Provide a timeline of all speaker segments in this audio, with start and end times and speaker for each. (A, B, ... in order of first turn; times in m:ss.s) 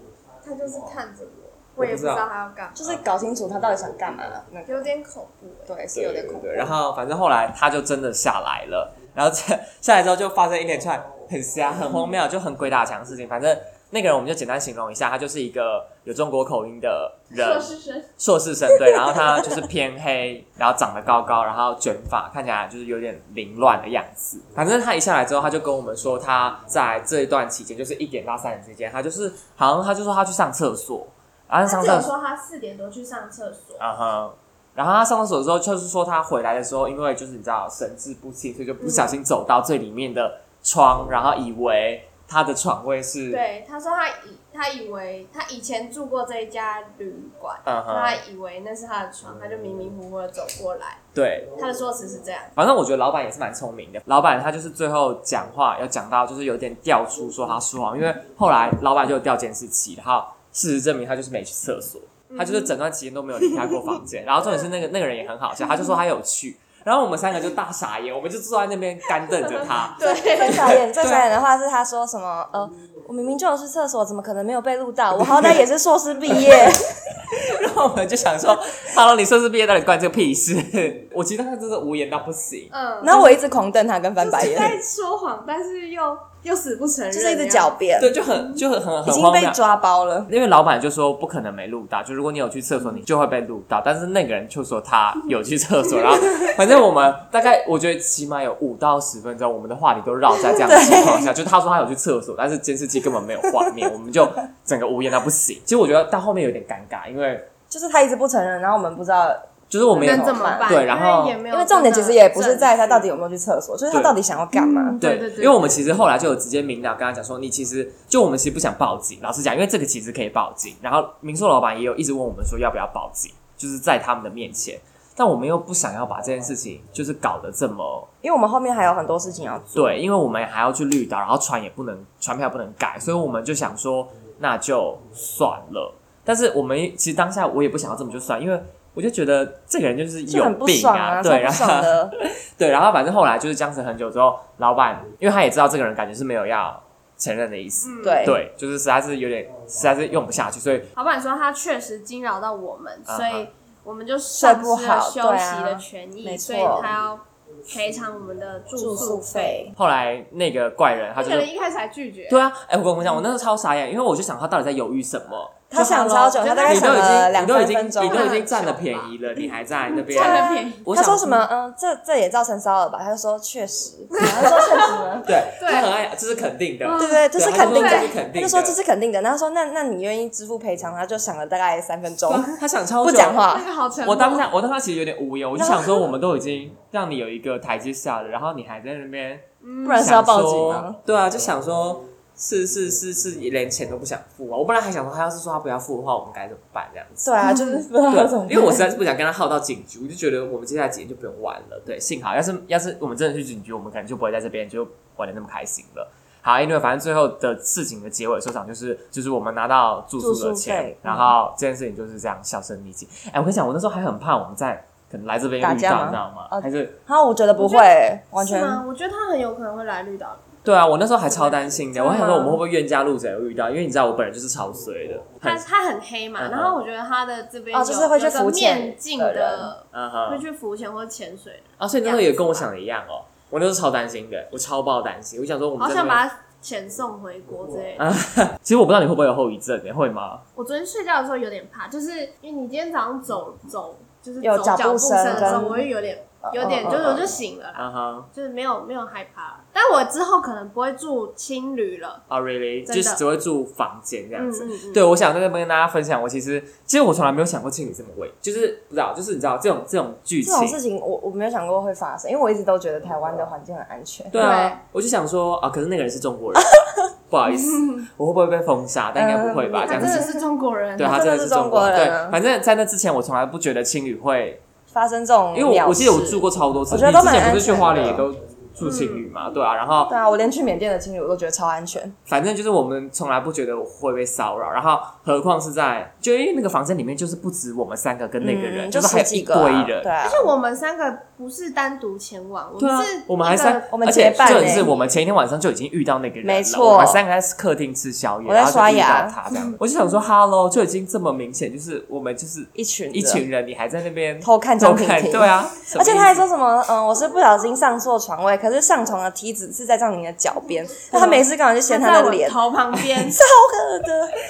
0:00.4-0:02.8 A
0:01.8-0:02.2 B
0:02.8-0:04.9 C
0:04.7-0:05.7 A
0:05.7-0:06.7 C
0:05.9-0:32.1 B
0:17.3-0:18.1 A
0:31.6-0:33.8 A
0:33.8-0:43.4 B
0:38.8-0:39.2 A
0:43.3-0:51.0 A
0:47.6-0:48.2 B
0:51.1-0:51.5 B
0:51.5-0:52.5 A
0:52.6-1:11.3 B
1:02.3-1:02.7 A
1:09.4-1:10.8 A
1:10.0-1:16.9 C
1:15.1-1:15.6 B
1:16.2-1:22.7 B
1:22.7-1:23.4 A
1:23.0-1:24.8 C
1:24.2-1:27.8 A
1:27.1-1:28.1 C
1:28.0-1:29.6 B
1:28.3-1:28.6 A
1:29.0-1:30.3 C
1:30.3-1:47.5 B
1:40.5-1:41.3 C
1:47.7-1:50.8 C
1:49.7-1:51.4 B
1:50.0-1:53.1 A
1:51.5-1:55.0 C
1:53.9-1:54.2 B
1:54.5-1:55.7 A
1:55.0-2:08.1 B
2:08.2-2:10.0 C
2:09.7-2:30.9 B
2:20.2-2:22.1 C
2:27.8-2:28.3 A
2:28.0-2:28.4 C
2:30.9-2:39.7 A
2:33.1-2:33.5 B
2:34.3-2:36.9 C
2:38.8-2:39.7 C
2:39.8-2:41.5 B
2:41.1-2:42.5 A
2:42.3-2:51.4 B
2:45.7-2:48.4 C
2:46.4-2:47.2 A
2:48.0-2:50.9 A
2:50.1-2:55.3 C
2:54.1-2:55.0 A
2:55.2-2:58.8 B
2:55.5-2:55.9 A
2:56.8-2:58.1 A
2:57.0-3:03.7 C
3:02.2-3:09.4 B
3:03.4-3:04.5 A
3:05.6-3:06.1 C
3:09.6-3:10.1 A
3:09.8-3:11.0 C
3:10.0-3:17.5 B
3:17.2-3:18.9 C
3:17.4-3:17.8 A
3:18.1-3:37.0 B
3:30.2-3:31.3 C
3:35.6-3:38.8 C
3:37.6-3:40.5 A
3:40.6-3:45.6 B
3:41.2-3:41.9 A
3:41.9-3:42.6 C
3:45.4-3:52.7 A
3:46.4-3:46.8 B
3:47.7-3:49.7 C
3:49.9-3:50.4 B
3:51.8-3:56.2 B
3:55.8-3:58.1 A
3:58.0-4:00.4 B
4:00.5-4:12.2 A
4:04.4-4:05.9 C
4:05.3-4:05.7 B
4:06.4-4:07.2 C
4:06.9-4:08.3 B
4:12.3-4:20.8 B
4:12.8-4:13.2 A
4:14.3-4:15.1 A
4:20.4-4:24.4 C
4:24.3-4:30.2 B
4:24.4-4:24.8 A
4:27.5-4:28.0 A
4:29.1-4:30.4 C
4:29.8-4:31.2 A
4:31.0-4:34.6 B
4:31.0-4:32.4 C
4:34.9-4:38.3 C
4:35.5-4:40.1 B
4:38.8-4:39.3 A
4:40.1-4:42.1 C
4:42.3-4:50.1 B
4:48.4-4:50.5 C
4:50.2-4:55.2 A
4:52.8-5:06.4 B
4:53.9-4:54.9 C
4:56.4-4:57.2 C
4:58.4-4:59.4 C
5:02.7-5:03.4 C
5:04.4-5:12.6 C
5:11.1-5:13.4 A
5:13.3-5:14.4 C